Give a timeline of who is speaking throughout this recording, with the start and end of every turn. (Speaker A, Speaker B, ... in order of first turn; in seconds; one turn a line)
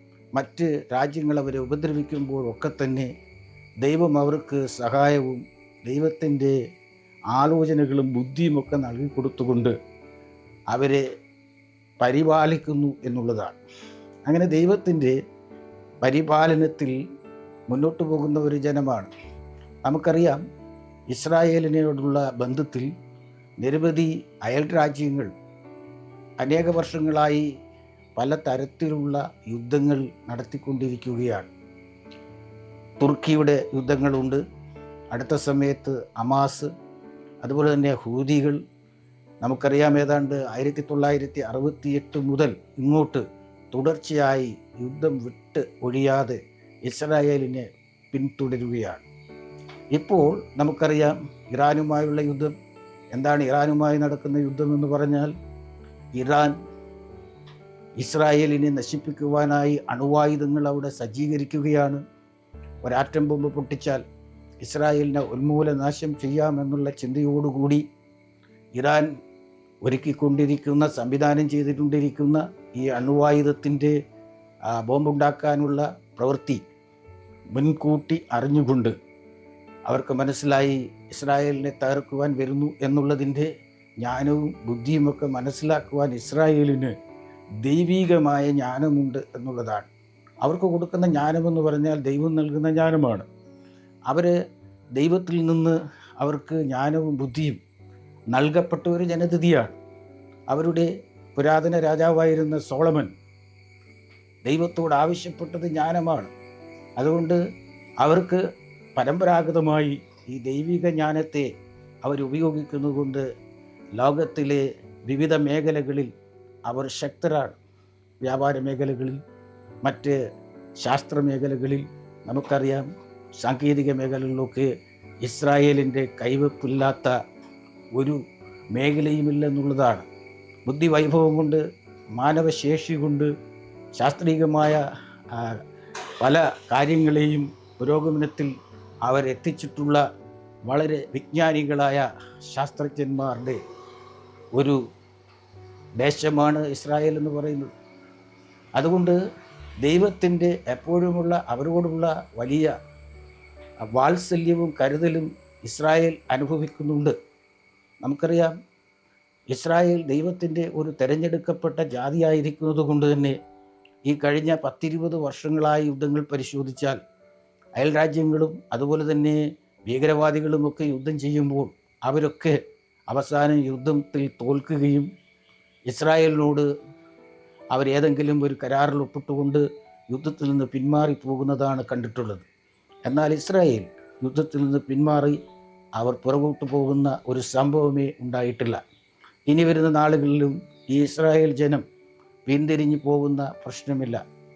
Speaker A: 0.4-3.1
Speaker A: 3.8-6.6
Speaker A: 7.3-9.7
Speaker A: 10.7-11.0
Speaker A: 12.0-13.6
Speaker A: 14.3-15.2
Speaker A: 16.0-17.0
Speaker A: 17.7-19.1
Speaker A: 19.9-20.4
Speaker A: 21.1-22.9
Speaker A: 23.6-25.3
Speaker A: 26.4-27.5
Speaker A: 28.2-31.5
Speaker A: 33.0-34.4
Speaker A: 35.1-36.7
Speaker A: 37.4-38.6
Speaker A: 39.4-49.0
Speaker A: 49.9-52.5
Speaker A: 53.1-55.3
Speaker A: 56.1-56.5
Speaker A: 58.0-62.0
Speaker A: 62.8-64.0
Speaker A: 64.6-67.8
Speaker A: 68.8-69.1
Speaker A: 69.8-74.0
Speaker A: 74.7-76.6
Speaker A: 77.5-79.0
Speaker A: 79.9-83.5
Speaker A: 84.0-87.0
Speaker A: 87.6-89.9
Speaker A: 90.4-93.3
Speaker A: 94.1-94.3
Speaker A: 95.0-97.6
Speaker A: 98.3-99.8
Speaker A: 100.5-103.1
Speaker A: 104.4-106.3
Speaker A: 107.0-107.4
Speaker A: 108.0-108.4
Speaker A: 109.0-111.5
Speaker A: 112.0-113.2
Speaker A: 114.0-116.1
Speaker A: 116.7-117.6
Speaker A: 118.2-119.2
Speaker A: 119.8-120.2
Speaker A: 120.8-122.9
Speaker A: 123.4-124.7
Speaker A: 125.2-127.2
Speaker A: 128.7-130.1
Speaker A: 130.7-131.6
Speaker A: 132.2-133.3
Speaker A: 134.0-135.6
Speaker A: 136.2-140.0
Speaker A: 140.7-143.6
Speaker A: 144.5-144.8
Speaker A: 146.0-147.7
Speaker A: 148.8-149.2
Speaker A: 149.8-152.7
Speaker A: 153.9-157.2
Speaker A: 158.0-158.6
Speaker A: 159.5-163.4
Speaker A: 164.1-167.0
Speaker A: 167.8-175.1
Speaker A: 175.9-176.7
Speaker A: 177.7-182.5
Speaker A: 183.1-185.4
Speaker A: 186.0-188.8
Speaker A: 189.5-191.8
Speaker A: 192.5-194.2